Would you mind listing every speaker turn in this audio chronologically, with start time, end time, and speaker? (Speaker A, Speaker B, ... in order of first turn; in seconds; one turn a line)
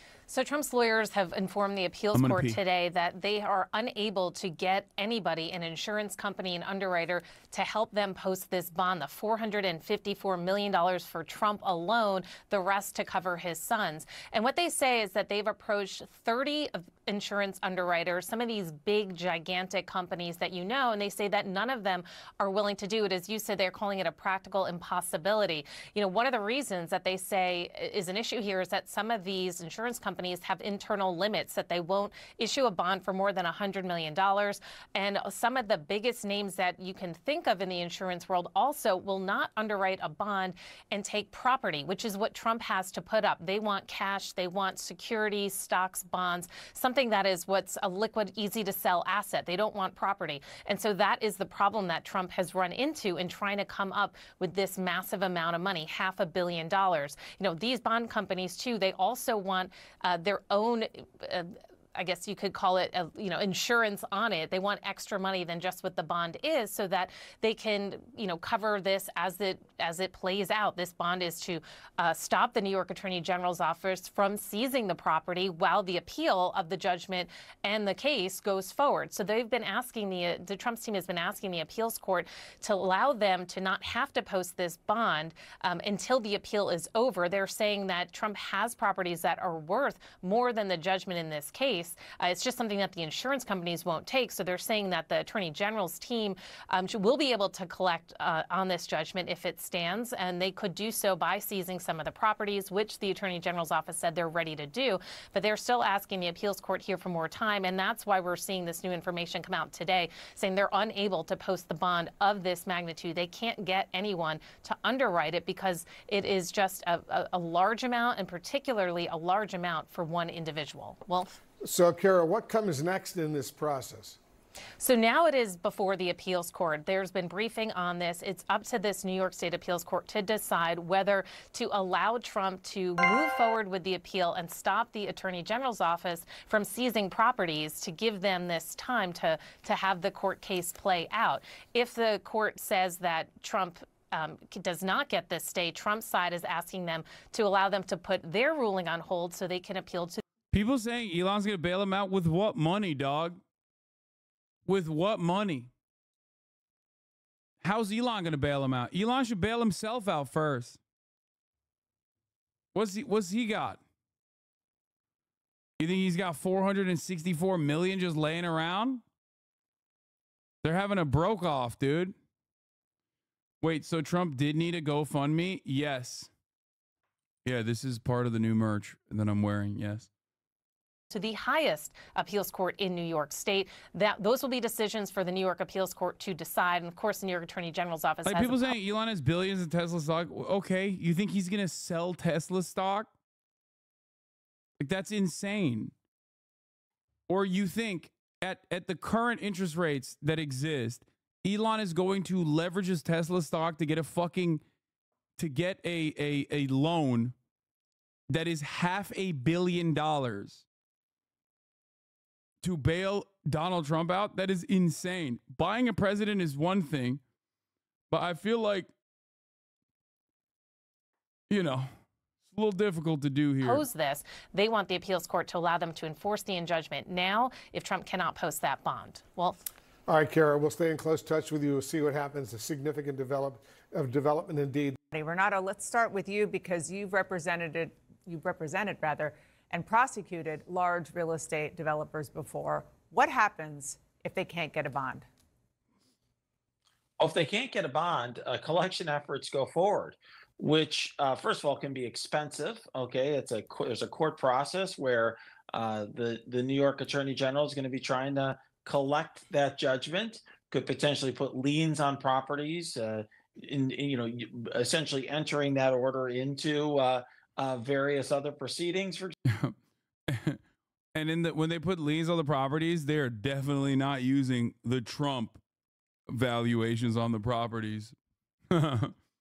Speaker A: 0.3-121.3
Speaker B: 2.1-2.6
Speaker C: 121.6-124.2
Speaker A: 124.8-150.2
Speaker B: 150.5-153.4
Speaker B: 154.7-155.7
Speaker B: 157.6-160.8
Speaker B: 162.7-163.8
Speaker B: 165.8-169.0
Speaker B: 170.6-172.1
Speaker B: 173.6-176.3
Speaker B: 177.4-180.1
Speaker A: 181.1-188.7
Speaker B: 188.2-193.1
Speaker B: 194.8-195.9
Speaker B: 197.3-204.6
Speaker B: 205.4-207.3
Speaker B: 208.3-210.6
Speaker B: 212.6-217.2
Speaker B: 218.1-218.9
Speaker B: 221.5-221.9
Speaker B: 222.5-223.8
Speaker A: 223.6-229.6
Speaker C: 230.1-235.0
Speaker D: 235.1-245.2
Speaker E: 247.2-269.3
Speaker B: 269.4-269.8
Speaker B: 270.3-270.6
Speaker B: 271.1-275.6
Speaker B: 276.3-278.1
Speaker B: 278.7-279.1